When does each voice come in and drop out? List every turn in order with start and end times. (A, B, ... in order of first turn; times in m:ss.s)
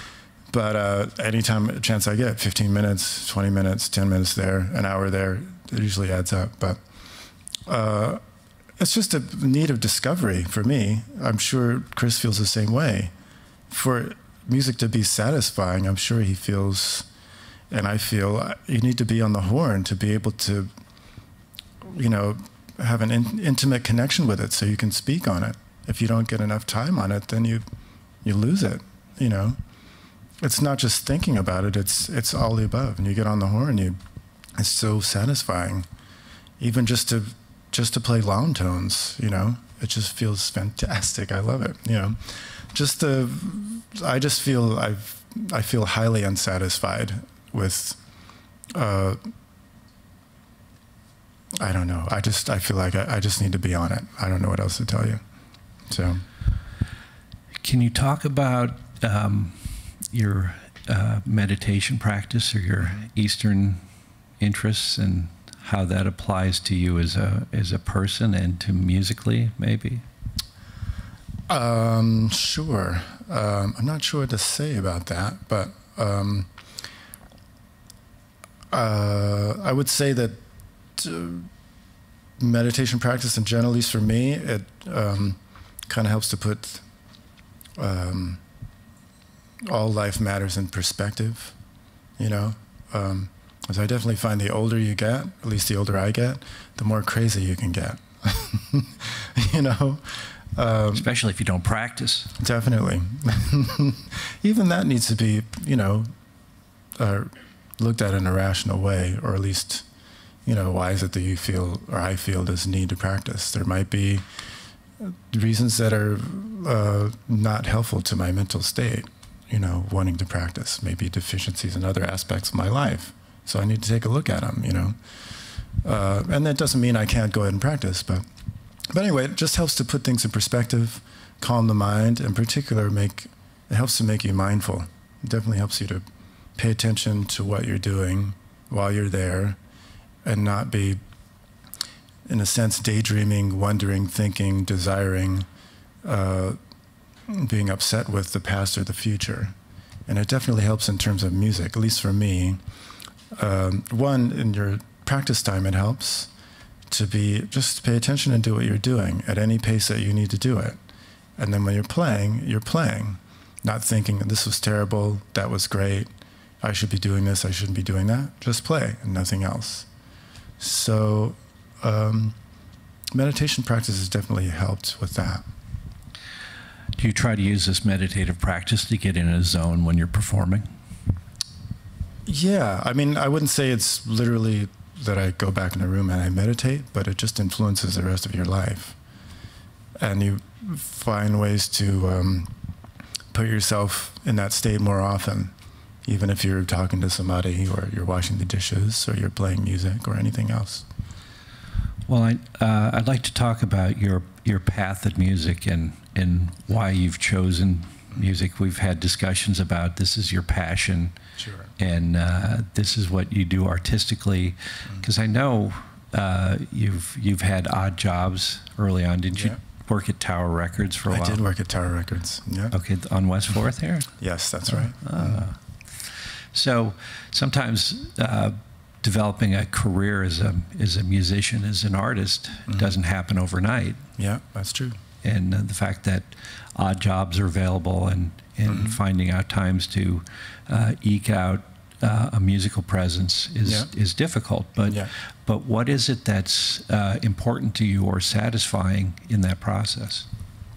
0:00.5-0:06.8 A
0:07.7-0:08.2 A
0:08.8-0:13.1 A
0:13.7-0:17.1 A
0:17.7-0:20.7 A
0:21.8-0:27.6 A
0:28.2-0:29.6 A
0:30.4-0:34.0 A
0:34.6-0:35.9 A
0:36.6-0:48.0 A
0:48.7-0:49.2 A
0:51.6-0:55.2 A
0:55.9-0:56.2 A
0:57.6-1:03.8 B
1:04.4-1:10.0 B
1:11.5-1:16.5 A
1:18.7-1:20.4 A
1:21.0-1:21.5 A
1:22.4-1:26.8 A
1:27.8-1:28.4 A
1:29.7-1:31.6 A
1:32.2-1:41.1 A
1:40.9-1:42.3 B
1:42.4-1:46.1 A
1:47.0-1:49.9 A
1:50.5-1:54.2 A
1:55.0-2:05.0 A
2:05.8-2:08.3 A
2:08.9-2:16.0 A
2:16.6-2:19.6 A
2:20.2-2:21.0 A
2:22.3-2:25.5 A
2:26.0-2:26.6 A
2:27.3-2:29.6 A
2:30.1-2:32.6 A
2:33.4-2:36.3 A
2:36.9-2:40.8 A
2:41.4-2:46.1 A
2:46.6-2:49.9 A
2:50.6-2:52.4 A
2:53.1-2:55.4 A
2:57.0-3:00.7 B
3:02.3-3:09.0 A
3:10.0-3:12.5 A
3:13.3-3:15.5 A
3:16.1-3:20.9 A
3:22.1-3:31.2 B
3:31.4-3:31.7 A
3:31.8-3:41.4 B
3:41.1-3:42.7 A
3:42.7-3:44.1 B
3:44.2-3:45.4 A
3:44.7-3:54.0 B
3:54.2-3:55.0 A
3:55.2-4:10.3 B
3:58.7-3:59.0 A
4:04.9-4:05.1 A